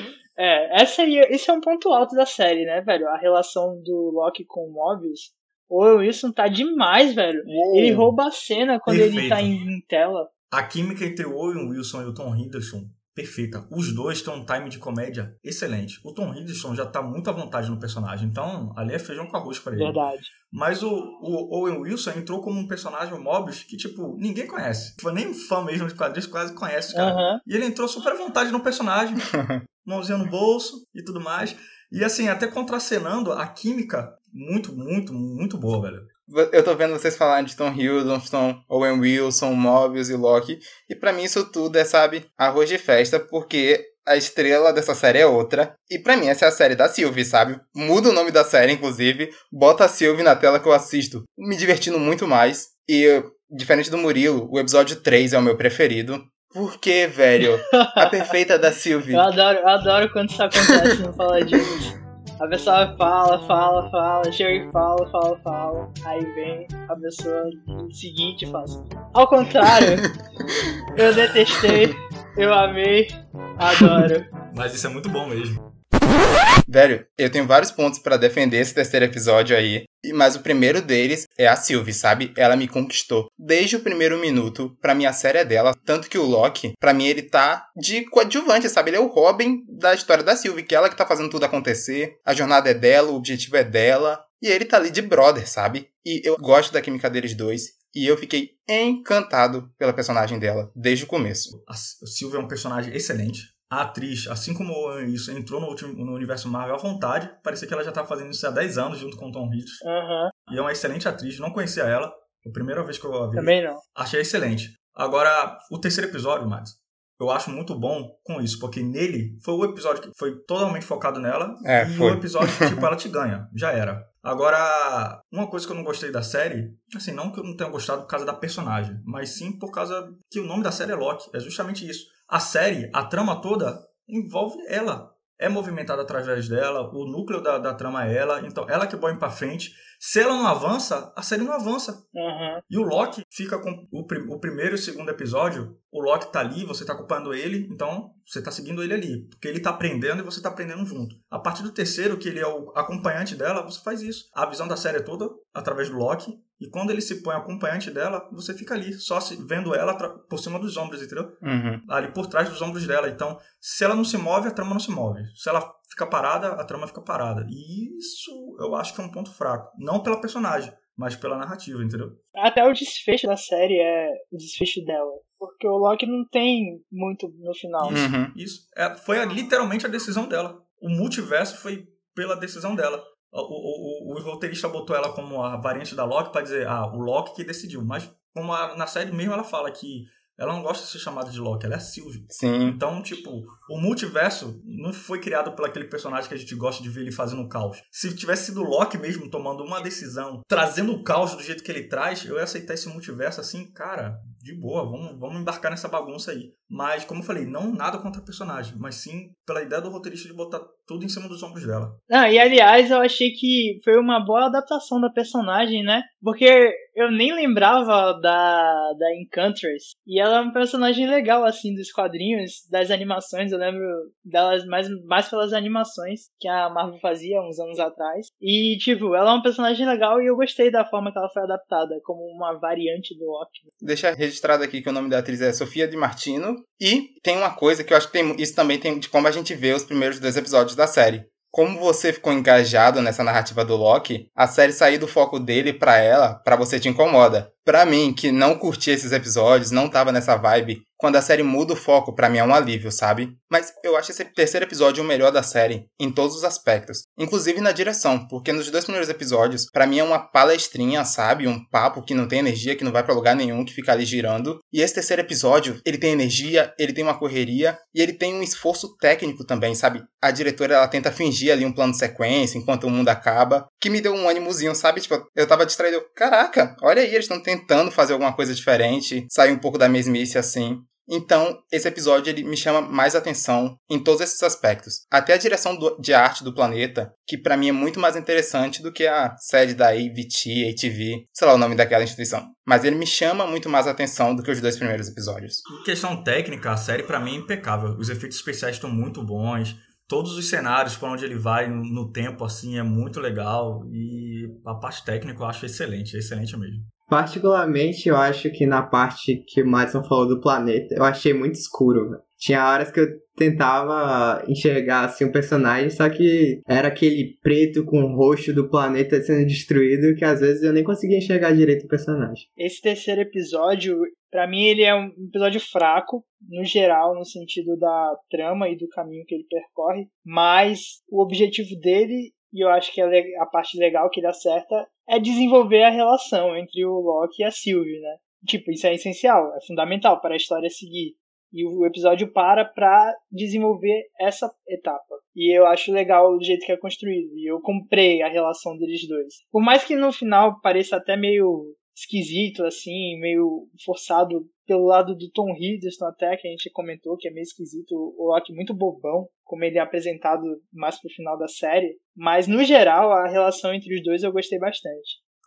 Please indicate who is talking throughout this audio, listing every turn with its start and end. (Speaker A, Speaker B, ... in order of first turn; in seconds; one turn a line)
Speaker A: 0.4-10.3
Speaker B: 7.4-8.1
Speaker B: 8.9-9.6
Speaker B: 10.5-29.2
Speaker A: 19.7-20.3
Speaker A: 26.9-27.4
Speaker B: 29.8-36.1
Speaker C: 36.3-59.3
Speaker A: 59.1-70.0
Speaker A: 71.0-74.2
Speaker B: 74.5-75.7
Speaker C: 76.7-101.5
Speaker B: 101.5-109.8
Speaker A: 109.8-110.3
Speaker B: 110.5-142.1
Speaker A: 113.3-113.8
Speaker C: 121.6-122.8
Speaker A: 142.1-142.6
Speaker B: 142.7-172.2
Speaker C: 161.4-161.8
Speaker A: 172.4-178.0
Speaker B: 177.8-212.0
Speaker C: 177.9-178.3
Speaker C: 192.3-192.8
Speaker A: 212.1-233.7
Speaker C: 233.8-295.6
Speaker B: 295.7-306.9
Speaker D: 307.1-322.4
Speaker A: 322.6-365.2